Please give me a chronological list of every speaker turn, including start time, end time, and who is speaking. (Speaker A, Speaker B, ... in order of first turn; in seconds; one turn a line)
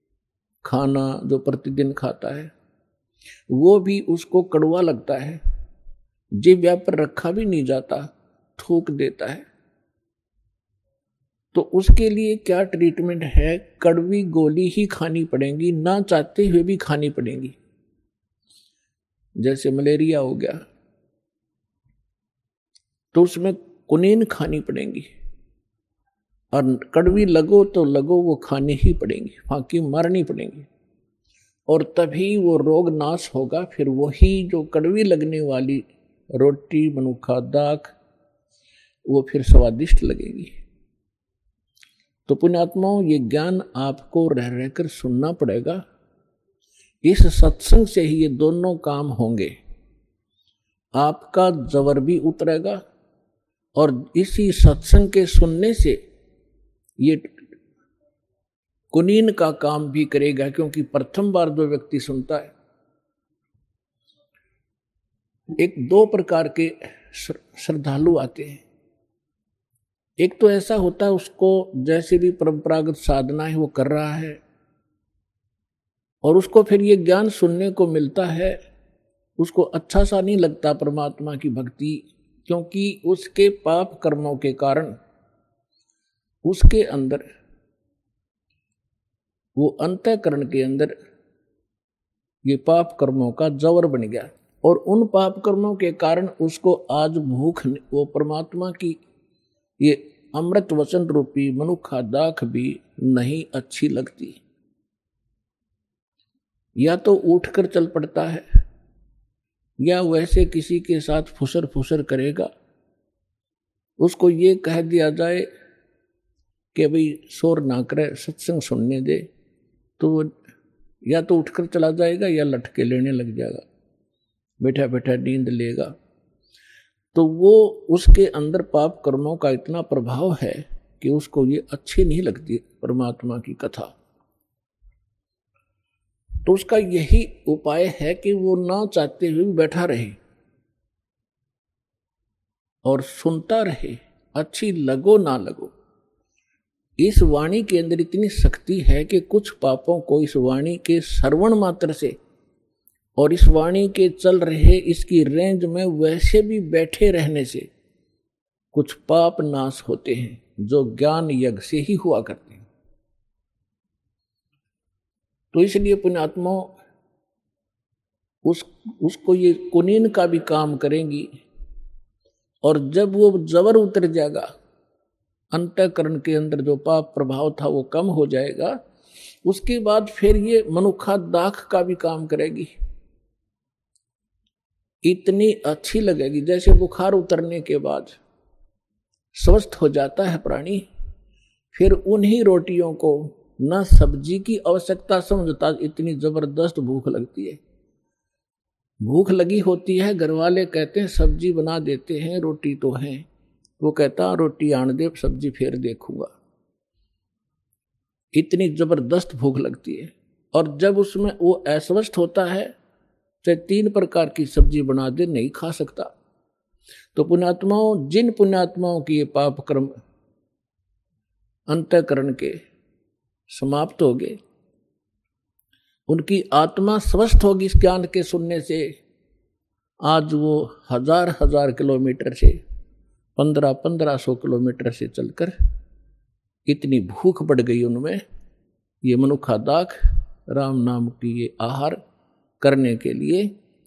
Speaker A: 0.6-2.5
Speaker A: 3.5-5.4
Speaker A: 6.4-9.5
Speaker A: 11.5-17.6
Speaker A: 19.4-20.6
Speaker A: 23.1-25.1
Speaker A: 26.5-30.7
Speaker A: 31.7-38.0
Speaker A: 39.1-40.5
Speaker A: 42.3-45.8
Speaker A: 47.0-49.5
Speaker A: 51.0-52.8
Speaker A: 53.8-56.0
Speaker A: 57.0-57.4
Speaker A: 58.9-62.5
Speaker A: 65.6-68.6
Speaker A: 70.2-74.4
Speaker A: 76.2-78.6
Speaker A: 79.4-85.0
Speaker A: 86.5-87.2
Speaker A: 89.6-90.9
Speaker A: 92.5-99.0
Speaker A: 99.8-104.4
Speaker A: 106.8-108.5
Speaker A: 109.8-112.5
Speaker A: 114.0-115.5
Speaker A: 116.7-119.2
Speaker A: 120.0-120.4
Speaker A: 121.1-123.7
Speaker A: 124.6-125.9
Speaker A: 127.1-133.9
Speaker A: 136.4-140.2
Speaker A: 142.8-145.8
Speaker A: 147.0-152.2
Speaker A: 153.2-157.7
Speaker A: 158.7-162.7
Speaker A: 165.5-166.8
Speaker A: 168.4-171.4
Speaker A: 172.6-174.5
Speaker A: 175.5-178.8
Speaker A: 179.4-182.7
Speaker A: 185.1-188.2
Speaker A: 189.4-190.9
Speaker A: 191.7-197.6
Speaker A: 199.0-203.3
Speaker A: 203.8-206.3
Speaker A: 208.4-212.8
Speaker A: 213.4-216.1
Speaker A: 217.1-219.9
Speaker A: 221.7-222.6
Speaker A: 223.5-224.4
Speaker A: 226.1-228.9
Speaker A: 230.1-232.6
Speaker A: 233.4-235.6
Speaker A: 236.7-238.2
Speaker A: 239.1-239.9
Speaker A: 240.5-242.0
Speaker A: 242.6-243.5